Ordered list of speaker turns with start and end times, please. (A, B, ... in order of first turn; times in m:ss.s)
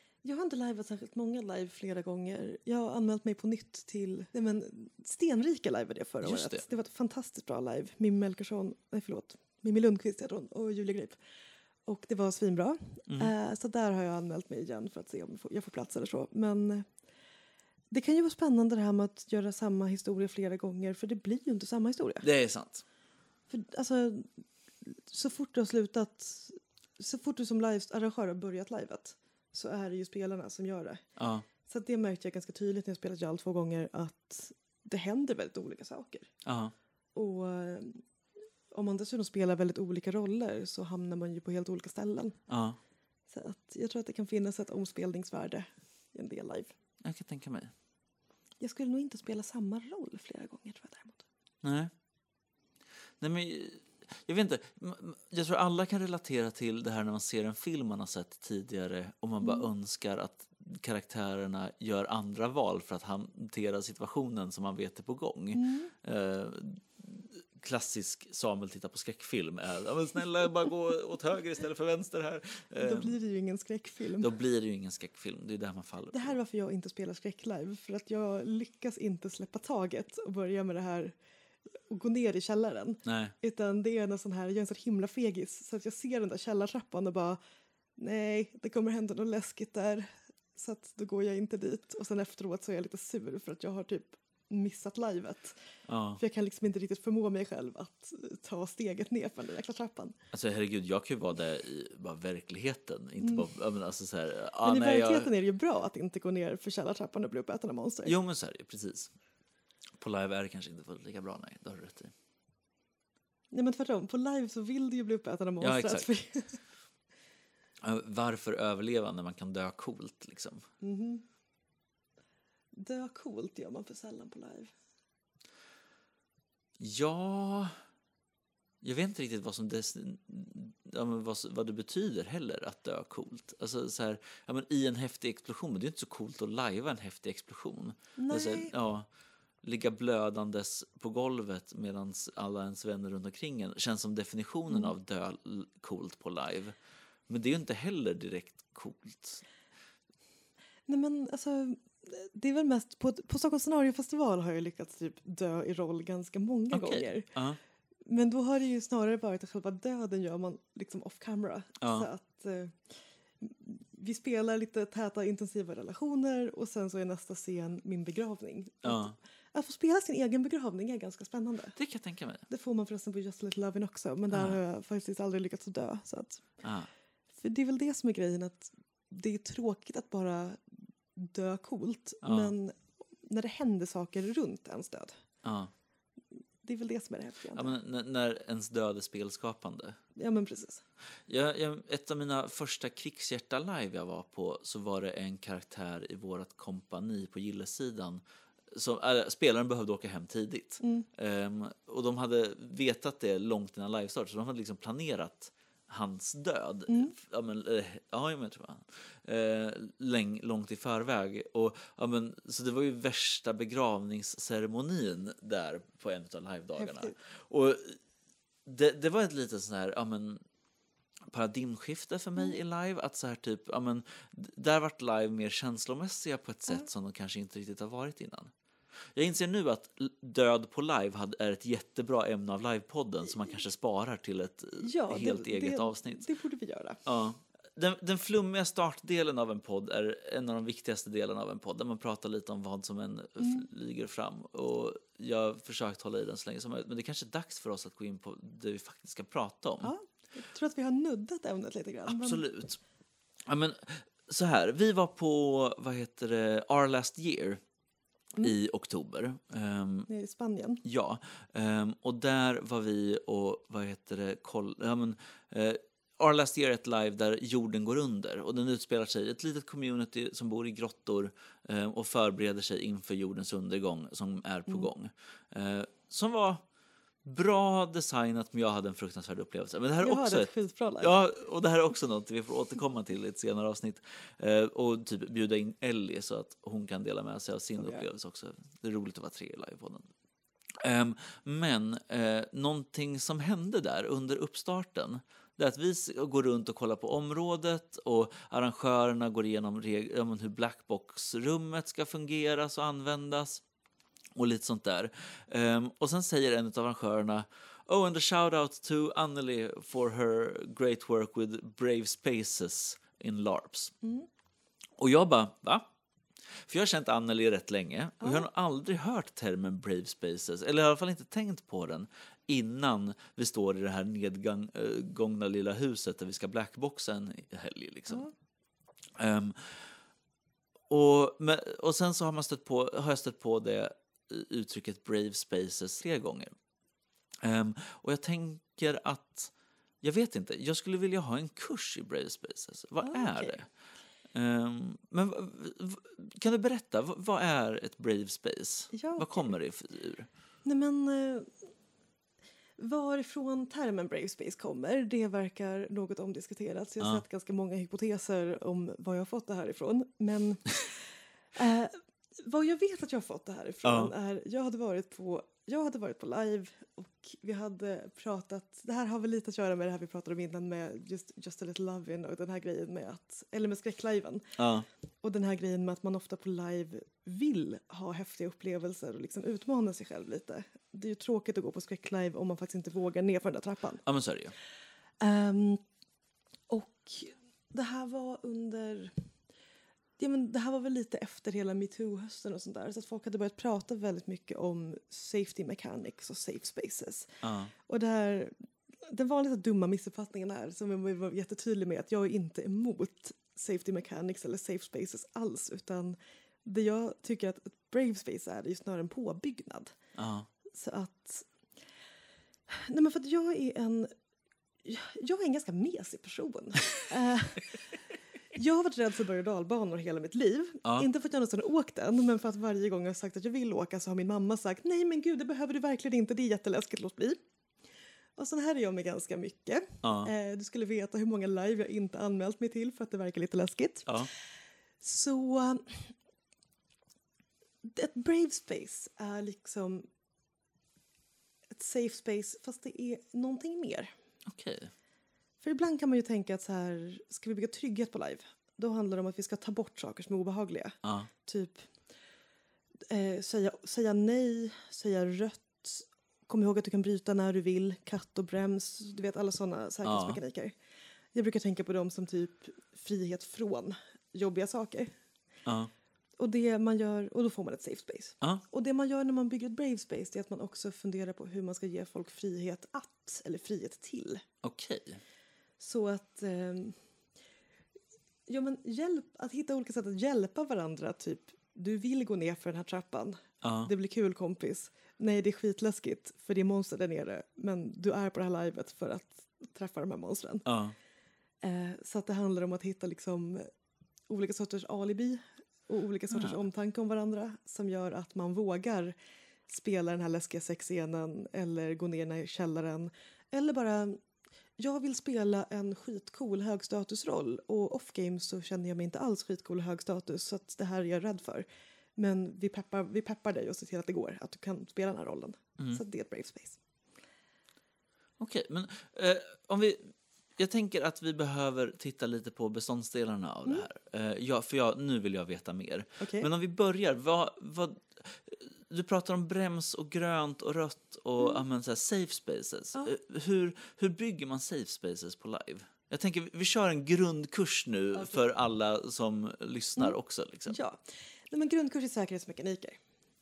0:00.2-0:11.2 A
0:06.2-0:06.6 B
0:11.9-0:16.9 A
0:13.1-0:13.3 B
0:17.9-0:22.3 A
0:22.2-0:22.8 B
0:23.5-0:24.3 A
0:24.8-0:31.0 A
0:31.2-0:31.5 B
0:31.6-0:36.3 A
0:36.4-0:36.7 B
0:37.2-0:38.0 A
0:38.7-0:42.4 A
0:42.5-0:42.8 B
0:43.3-0:46.8 A
0:47.0-0:47.7 B
0:48.6-0:51.3 A
0:51.6-0:51.9 B
0:53.2-1:13.2 B
1:05.6-1:05.9 A
1:12.8-1:14.3 A
1:14.2-1:16.4 B
1:16.1-1:21.2 A
1:21.9-1:27.4 A
1:23.0-1:23.4 B
1:28.0-1:35.6 A
1:35.9-1:36.2 B
1:36.2-1:40.2 A
1:40.3-1:45.3 B
1:43.2-1:43.5 A
1:44.6-1:48.1 A
1:48.1-1:49.1 B
1:50.0-1:52.1 B
1:53.5-1:56.6 A
1:55.6-1:56.1 B
1:57.8-2:00.6 B
2:00.8-2:01.2 A
2:02.7-2:04.7 A
2:06.8-2:07.7 B
2:08.8-2:19.1 B
2:18.2-2:18.7 A
2:19.6-2:26.8 B
2:27.3-2:29.4 B
2:30.9-2:37.3 A
2:36.7-2:37.6 B
2:38.1-2:42.8 A
2:41.8-2:42.1 B
2:43.4-2:51.8 A
2:48.8-2:49.2 B
2:51.8-2:52.4 B
2:52.5-2:56.4 A
2:54.3-2:54.6 B
2:56.6-2:56.9 B
2:57.4-3:00.6 A
3:01.2-3:05.2 A
3:02.2-3:02.5 B
3:05.4-3:05.7 B
3:06.6-3:07.8 A
3:07.5-3:10.0 B
3:10.2-3:10.8 A
3:11.3-3:38.0 B
3:20.8-3:21.1 A
3:26.9-3:27.2 A
3:36.8-3:37.2 A
3:38.7-3:40.4 B
3:41.3-3:48.5 B
3:49.2-3:56.2 B
3:54.8-3:57.0 A
3:57.1-4:09.9 B
4:03.4-4:03.7 A
4:09.8-4:12.4 A
4:12.1-4:12.8 B
4:13.4-4:17.6 B
4:18.4-4:20.1 B
4:20.1-4:20.8 A
4:20.8-4:36.6 B
4:37.2-4:50.1 B
4:40.0-4:41.1 A
4:47.8-4:48.0 A
4:50.8-5:03.6 B
5:04.4-5:13.9 B
5:15.0-5:15.9 B
5:16.5-5:28.3 B
5:29.2-5:29.9 B
5:30.9-5:36.5 B
5:37.4-5:43.7 B
5:43.0-5:43.6 A
5:44.3-5:50.3 B
5:48.9-5:49.5 A
5:50.6-5:51.5 A
5:52.8-6:00.8 A
6:01.6-6:14.5 A
6:03.8-6:04.1 B
6:14.6-6:14.9 B
6:15.2-6:24.0 A
6:24.0-6:24.5 B
6:25.2-6:25.8 A
6:26.7-6:29.2 A
6:30.2-6:38.5 A
6:37.4-6:37.7 B
6:39.0-6:50.0 A
6:50.2-6:50.5 B
6:50.7-6:51.5 A
6:52.7-6:54.1 A
6:54.8-6:57.8 A
6:58.5-7:07.4 A
7:08.4-7:14.2 A
7:10.0-7:10.3 B
7:15.0-7:16.1 A
7:17.8-7:20.1 A
7:21.7-7:24.1 A
7:24.5-7:24.9 B
7:25.6-7:31.9 A
7:31.0-7:31.3 B
7:33.1-7:40.8 A
7:40.0-7:40.4 B
7:41.3-7:45.1 A
7:45.6-7:45.9 B
7:46.4-7:54.4 A
7:54.6-7:55.2 B
7:55.8-7:57.0 A
7:58.5-8:10.7 A
8:03.6-8:03.9 B
8:10.6-8:11.0 B
8:11.6-8:13.7 A
8:14.3-8:19.2 A
8:16.3-8:16.6 B
8:19.7-8:24.2 A
8:24.8-8:36.8 A
8:38.4-9:00.8 B
8:46.2-8:46.5 A
9:00.7-9:03.0 A